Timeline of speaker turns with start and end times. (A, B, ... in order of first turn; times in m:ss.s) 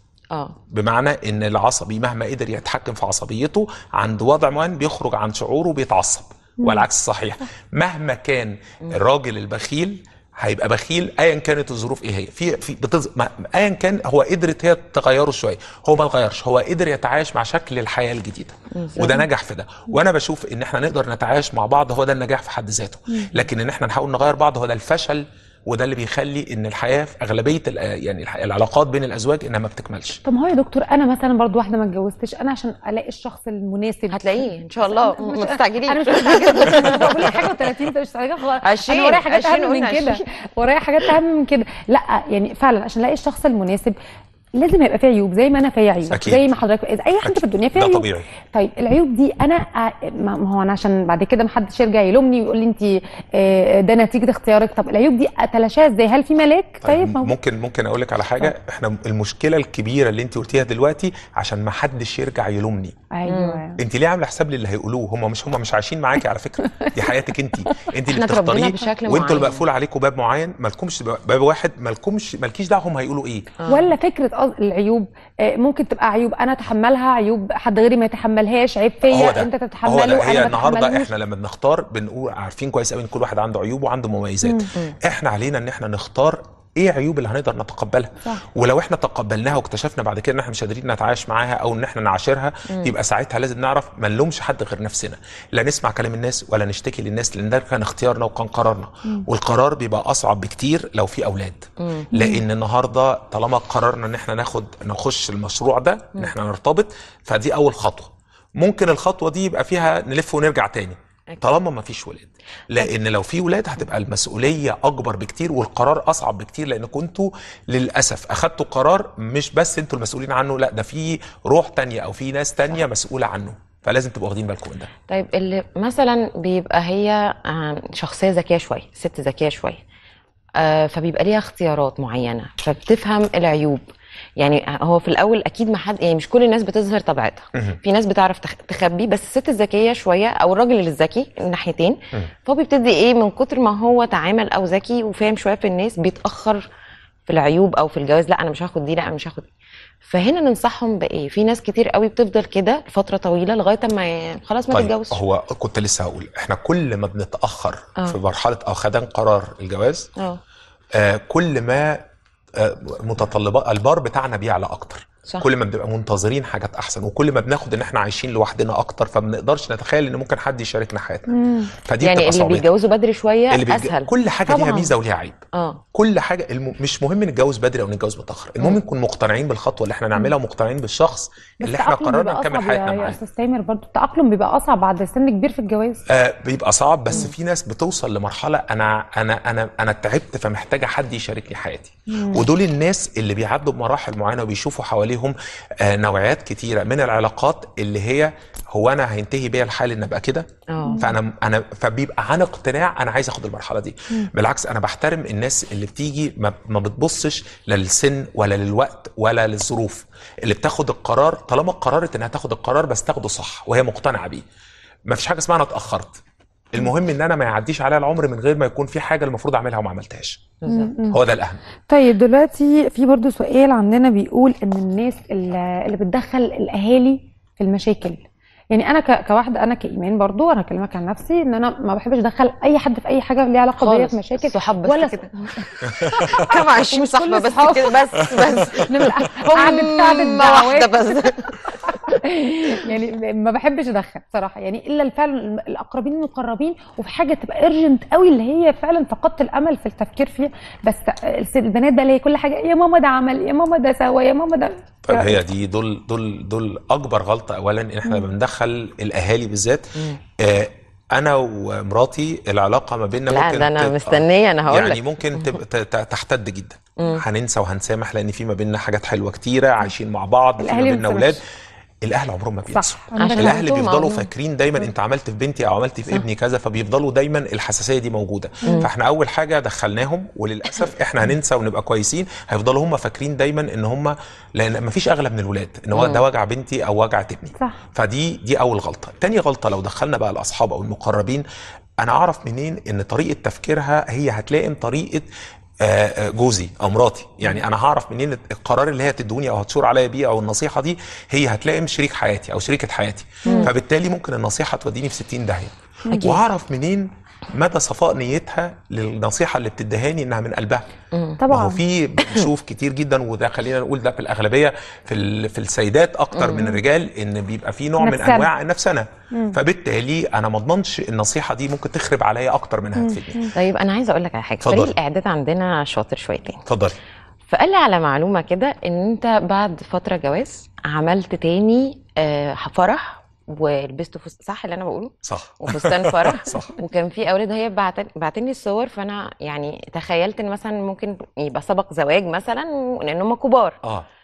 0:00.7-0:30.2 A
0:18.7-0:19.2 B
0:30.2-0:44.0 C
0:34.1-0:37.4 B
0:38.6-0:40.2 B
0:44.6-0:57.3 C
0:46.1-0:46.5 A
0:47.2-0:48.3 A
0:56.8-1:03.0 A
1:03.1-1:03.8 C
1:03.2-1:03.6 B
1:03.8-1:13.5 A
1:06.7-1:07.1 C
1:08.1-1:09.6 B
1:13.6-1:13.9 B
1:13.7-1:21.1 C
1:19.1-2:04.9 A
1:24.4-1:24.7 C
1:41.8-1:42.1 B
1:42.1-1:42.4 C
2:05.1-2:09.8 B
2:10.6-2:13.8 B
2:14.4-2:26.7 B
2:27.3-2:29.5 B
2:30.0-2:35.2 B
2:34.7-2:40.1 A
2:40.9-2:52.7 A
2:51.3-2:51.7 C
2:52.0-2:54.5 B
2:53.5-2:55.4 A
2:54.5-2:54.9 C
2:55.5-2:55.8 B
2:55.9-3:03.2 A
3:01.6-3:06.0 C
3:06.1-3:20.5 A
3:12.1-3:12.4 C
3:20.7-3:21.0 B
3:20.8-3:21.1 C
3:21.0-3:34.4 A
3:35.1-3:36.2 A
3:36.7-3:40.4 A
3:40.6-3:40.9 B
3:40.7-3:41.2 C
3:41.1-3:41.6 A
3:41.9-3:58.0 C
3:53.8-4:01.8 B
3:56.0-3:56.4 A
3:58.5-4:15.4 C
4:15.1-4:31.4 A
4:23.3-4:25.6 B
4:27.0-4:27.2 B
4:30.6-4:31.4 C
4:32.0-4:51.4 A
4:32.7-4:33.6 C
4:33.2-4:34.3 B
4:45.9-4:46.2 B
4:52.0-4:55.3 A
4:55.8-5:10.8 A
5:03.4-5:03.7 B
5:06.1-5:06.4 C
5:11.1-5:11.4 B
5:11.4-5:11.8 C
5:11.5-5:23.5 A
5:16.3-5:16.7 B
5:18.0-5:18.5 C
5:23.0-5:23.5 C
5:23.5-5:26.6 B
5:24.6-5:24.9 A
5:26.6-5:27.0 A
5:27.5-5:43.8 B
5:35.2-5:36.7 A